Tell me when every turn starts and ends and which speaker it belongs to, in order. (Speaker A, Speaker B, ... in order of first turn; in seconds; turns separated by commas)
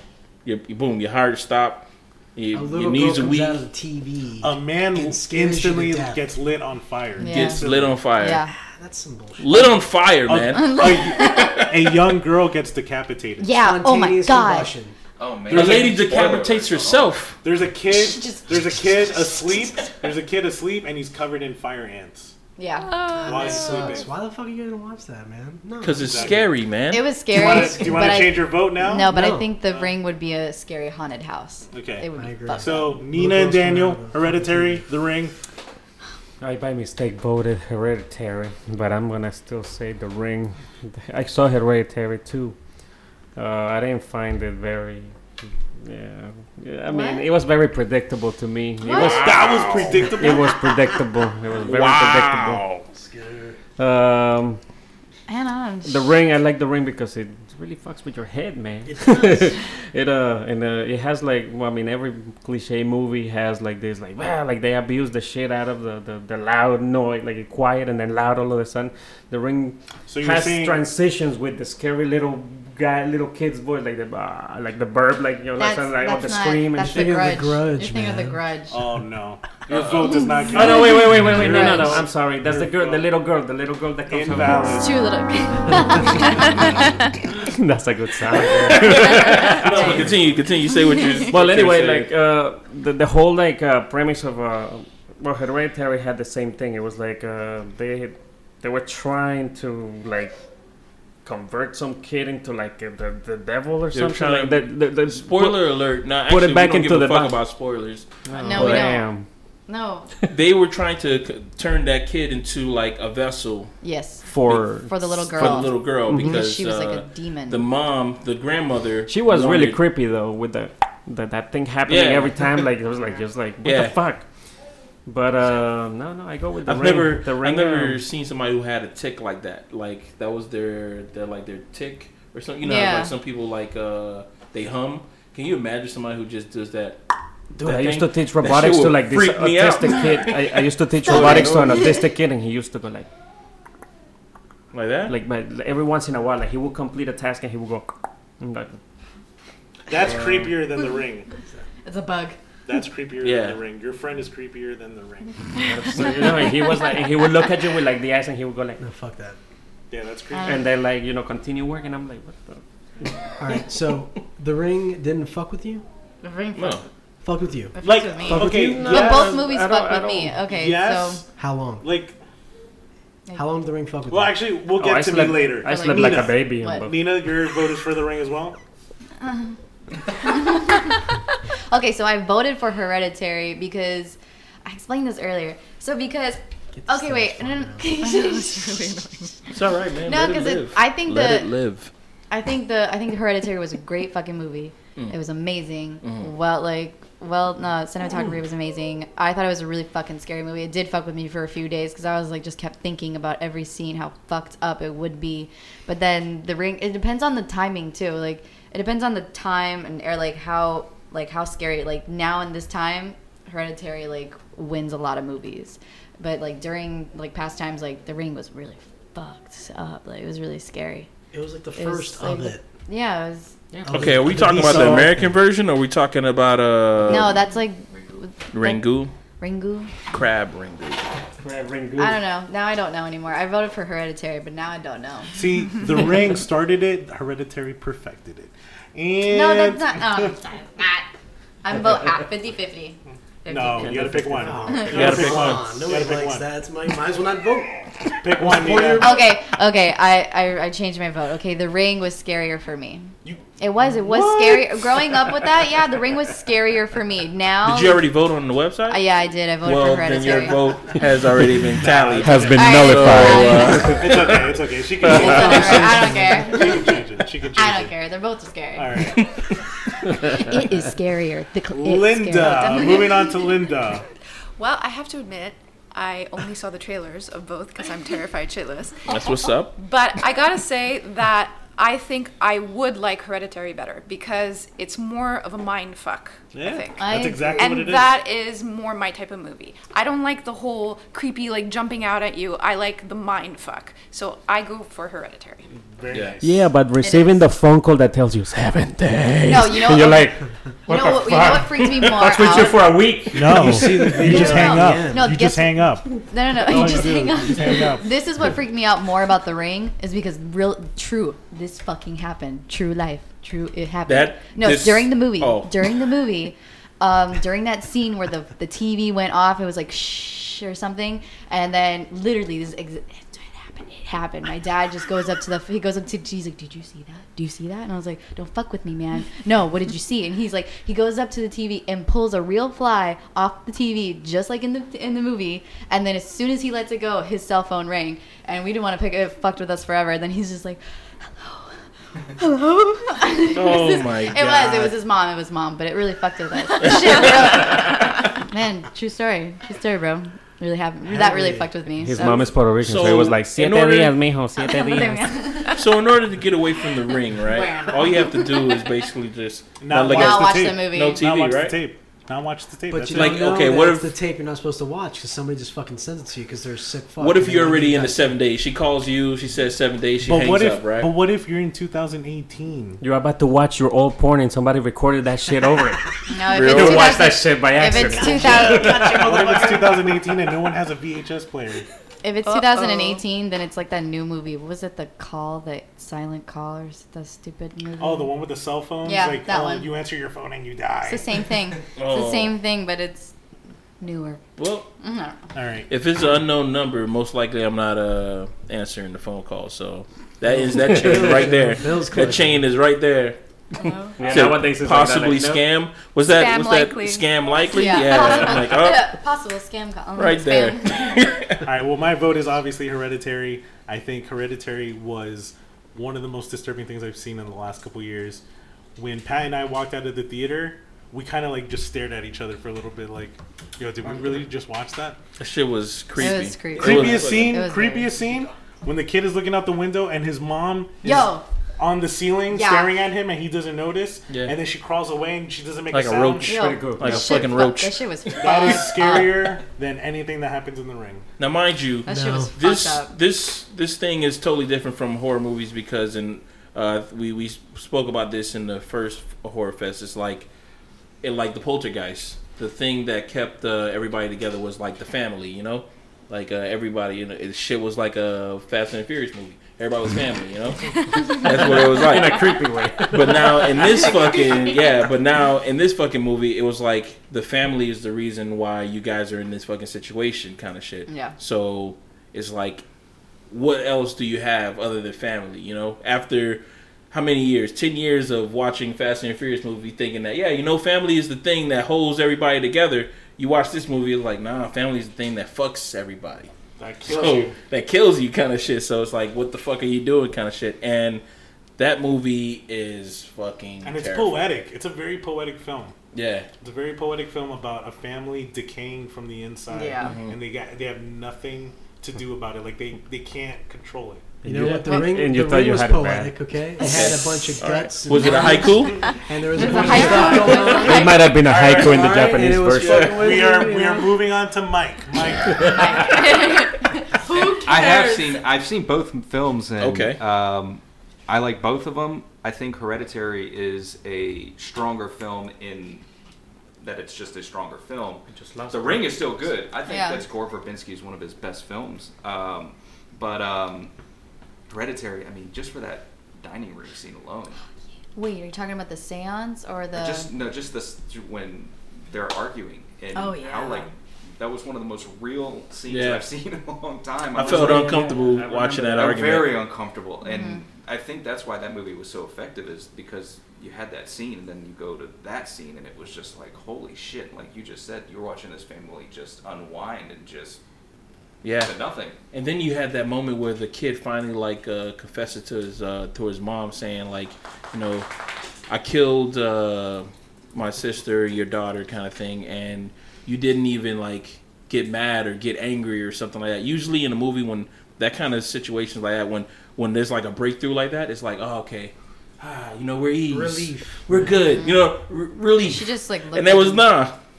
Speaker A: 0.5-3.6, Speaker B: 2.5-6.3, Speaker C: 4.4-8.0, Speaker D: 7.2-7.7, Speaker A: 7.2-8.5, Speaker D: 8.2-8.5, Speaker B: 8.5-9.8, Speaker A: 9.4-12.0, Speaker C: 10.2-13.5, Speaker D: 10.5-11.7, Speaker D: 13.4-14.7, Speaker B: 13.5-15.0, Speaker E: 15.2-17.2, Speaker C: 15.5-16.3, Speaker A: 15.5-17.4, Speaker C: 17.4-22.4, Speaker D: 17.9-18.5, Speaker D: 22.6-23.0, Speaker F: 22.8-23.9, Speaker B: 23.2-26.4, Speaker C: 23.2-24.1, Speaker A: 25.8-27.2, Speaker C: 25.9-26.5, Speaker D: 26.9-32.9, Speaker C: 27.3-29.2, Speaker B: 27.5-28.1, Speaker B: 29.0-29.5, Speaker C: 31.7-35.4, Speaker B: 32.2-34.9, Speaker G: 36.4-42.6, Speaker G: 43.4-45.2, Speaker G: 45.8-52.6, Speaker D: 46.9-47.3, Speaker D: 48.9-49.3, Speaker A: 48.9-50.0, Speaker C: 49.1-51.0, Speaker B: 49.6-50.2, Speaker A: 51.6-52.9, Speaker B: 52.9-53.6, Speaker G: 53.8-54.6, Speaker D: 55.3-56.1, Speaker G: 55.9-77.2, Speaker B: 58.9-59.5, Speaker C: 70.1-70.8, Speaker D: 75.6-78.8, Speaker B: 76.9-78.4, Speaker C: 78.7-83.1, Speaker A: 79.7-80.1, Speaker D: 80.3-80.8, Speaker G: 80.5-84.8, Speaker D: 81.3-82.0, Speaker C: 84.1-85.0, Speaker D: 84.8-87.0, Speaker G: 87.5-90.1, Speaker A: 88.8-92.1, Speaker D: 89.3-90.1, Speaker D: 90.9-91.3, Speaker G: 91.3-100.4, Speaker G: 101.2-107.5, Speaker A: 103.9-109.0, Speaker G: 108.2-109.3, Speaker D: 108.4-109.1, Speaker D: 109.7-110.1, Speaker A: 110.3-113.8, Speaker D: 113.8-117.7, Speaker G: 114.3-116.5, Speaker A: 114.4-119.8, Speaker G: 119.1-124.3, Speaker A: 121.9-122.7, Speaker A: 123.6-124.0, Speaker G: 125.1-128.0, Speaker A: 126.6-137.0, Speaker D: 132.6-133.2, Speaker G: 137.5-143.1, Speaker A: 137.6-141.9, Speaker B: 141.3-141.6, Speaker A: 144.7-145.2, Speaker G: 145.1-148.8, Speaker C: 149.9-151.3, Speaker D: 151.8-152.4, Speaker C: 152.7-155.5, Speaker A: 153.2-153.6, Speaker G: 155.6-158.8, Speaker B: 158.8-159.4, Speaker C: 159.9-160.7, Speaker D: 160.3-160.7, Speaker G: 160.4-163.1, Speaker B: 163.4-165.8, Speaker D: 166.2-166.9, Speaker A: 166.6-166.8, Speaker B: 167.2-169.0, Speaker D: 167.7-171.2, Speaker C: 167.8-169.3, Speaker G: 168.3-170.5, Speaker C: 170.5-171.3, Speaker B: 171.4-171.9, Speaker C: 171.8-172.2, Speaker B: 173.3-174.4, Speaker C: 174.1-178.6, Speaker G: 174.7-177.1, Speaker D: 175.6-176.9, Speaker D: 179.2-181.2, Speaker D: 181.7-189.0, Speaker B: 186.7-188.0, Speaker F: 188.0-189.4, Speaker A: 189.5-191.9, Speaker D: 190.0-191.5, Speaker D: 192.3-221.1, Speaker A: 196.0-196.3, Speaker B: 221.3-222.7, Speaker D: 221.8-223.6, Speaker G: 223.7-225.0, Speaker B: 223.9-225.3, Speaker A: 223.9-227.4, Speaker D: 227.1-228.9, Speaker A: 228.5-229.1, Speaker D: 229.4-229.9, Speaker A: 230.1-231.2, Speaker G: 231.4-232.2, Speaker D: 232.0-235.4, Speaker C: 235.3-240.4, Speaker D: 239.2-241.1, Speaker D: 241.6-245.1, Speaker C: 243.5-246.5, Speaker G: 243.7-244.8, Speaker B: 244.4-249.2, Speaker A: 244.8-245.8, Speaker C: 248.2-249.3, Speaker D: 249.0-258.1, Speaker C: 254.1-255.2, Speaker A: 257.6-259.1, Speaker D: 258.9-260.9, Speaker A: 259.6-264.3, Speaker C: 261.7-262.6, Speaker G: 262.1-264.5, Speaker D: 262.5-264.0, Speaker C: 263.9-267.9, Speaker G: 265.0-265.9, Speaker D: 265.1-267.0, Speaker D: 267.6-269.1, Speaker C: 268.8-269.3, Speaker D: 270.2-273.1, Speaker C: 271.7-274.1, Speaker F: 272.4-273.9, Speaker F: 274.6-279.1, Speaker A: 279.1-279.8, Speaker F: 279.8-295.6, Speaker C: 286.5-288.2, Speaker D: 287.0-288.0, Speaker C: 295.7-296.7, Speaker A: 296.1-296.4, Speaker G: 296.4-304.8, Speaker D: 297.0-297.4, Speaker D: 299.5-300.3, Speaker D: 300.9-302.9, Speaker C: 303.3-308.1, Speaker B: 303.5-305.4, Speaker D: 304.2-340.8, Speaker A: 314.1-316.1, Speaker D: 341.4-352.6, Speaker A: 343.5-344.9, Speaker A: 346.8-347.8, Speaker B: 351.0-351.7, Speaker G: 352.0-355.5, Speaker A: 352.8-354.1, Speaker D: 354.6-355.8, Speaker A: 355.7-361.8, Speaker D: 357.4-358.8, Speaker C: 359.8-363.6, Speaker D: 360.1-361.2, Speaker B: 362.9-368.3, Speaker A: 363.1-364.1, Speaker A: 367.2-371.2, Speaker C: 370.2-373.0, Speaker G: 373.0-379.3, Speaker D: 376.3-379.2, Speaker A: 376.5-377.4, Speaker B: 378.1-380.1, Speaker C: 378.3-381.9, Speaker D: 382.2-388.3, Speaker F: 382.6-383.1, Speaker C: 388.0-391.4, Speaker D: 389.0-389.9, Speaker D: 391.1-393.3, Speaker A: 392.0-392.6, Speaker D: 394.0-394.5, Speaker A: 394.6-394.9, Speaker D: 395.0-395.4, Speaker C: 395.5-395.9, Speaker A: 395.9-403.4, Speaker B: 400.5-402.6, Speaker G: 400.8-401.2, Speaker D: 403.8-404.2, Speaker G: 404.2-405.7, Speaker A: 404.2-409.2, Speaker F: 406.2-408.0, Speaker D: 407.7-411.3, Speaker A: 410.2-411.7, Speaker C: 411.6-418.4, Speaker C: 419.0-425.2, Speaker A: 425.4-427.6, Speaker D: 426.2-428.1, Speaker C: 426.7-436.6, Speaker D: 431.0-431.4, Speaker D: 432.5-432.9, Speaker A: 434.3-434.5, Speaker A: 435.9-438.0, Speaker D: 436.4-439.6, Speaker G: 436.6-437.5, Speaker C: 438.4-441.3, Speaker A: 441.4-450.5, Speaker D: 442.1-443.1, Speaker B: 442.1-442.5, Speaker A: 451.2-472.8, Speaker D: 461.1-461.5, Speaker G: 461.4-464.1, Speaker D: 463.9-464.6, Speaker D: 471.1-471.4, Speaker A: 473.5-486.5, Speaker C: 486.8-487.6, Speaker A: 487.1-491.2, Speaker A: 491.8-494.5, Speaker C: 493.8-495.9, Speaker A: 496.1-496.5, Speaker C: 496.6-504.4, Speaker D: 499.7-500.1, Speaker A: 500.0-500.4, Speaker G: 504.4-506.4, Speaker B: 504.4-514.2, Speaker A: 504.5-504.8, Speaker D: 504.9-505.1, Speaker D: 506.8-507.1, Speaker A: 506.8-509.1, Speaker D: 508.1-511.2, Speaker G: 509.8-513.1, Speaker C: 511.0-512.3, Speaker A: 512.8-513.3, Speaker C: 513.0-516.0, Speaker D: 515.6-518.3, Speaker F: 516.0-516.5, Speaker E: 517.5-526.0, Speaker F: 517.5-518.2, Speaker A: 519.8-520.2, Speaker E: 526.8-533.9, Speaker G: 528.3-529.6, Speaker D: 529.9-530.3, Speaker E: 534.7-537.6, Speaker D: 538.1-540.3, Speaker E: 540.0-548.0, Speaker D: 543.1-543.9, Speaker A: 545.9-546.3, Speaker G: 547.4-549.2, Speaker A: 547.4-549.6, Speaker C: 547.7-548.0, Speaker E: 549.0-560.6, Speaker D: 550.2-550.6, Speaker A: 561.4-561.7, Speaker E: 561.6-562.2, Speaker A: 562.3-568.1, Speaker A: 568.7-587.2, Speaker B: 583.3-584.4, Speaker D: 584.5-584.9, Speaker D: 585.6-586.9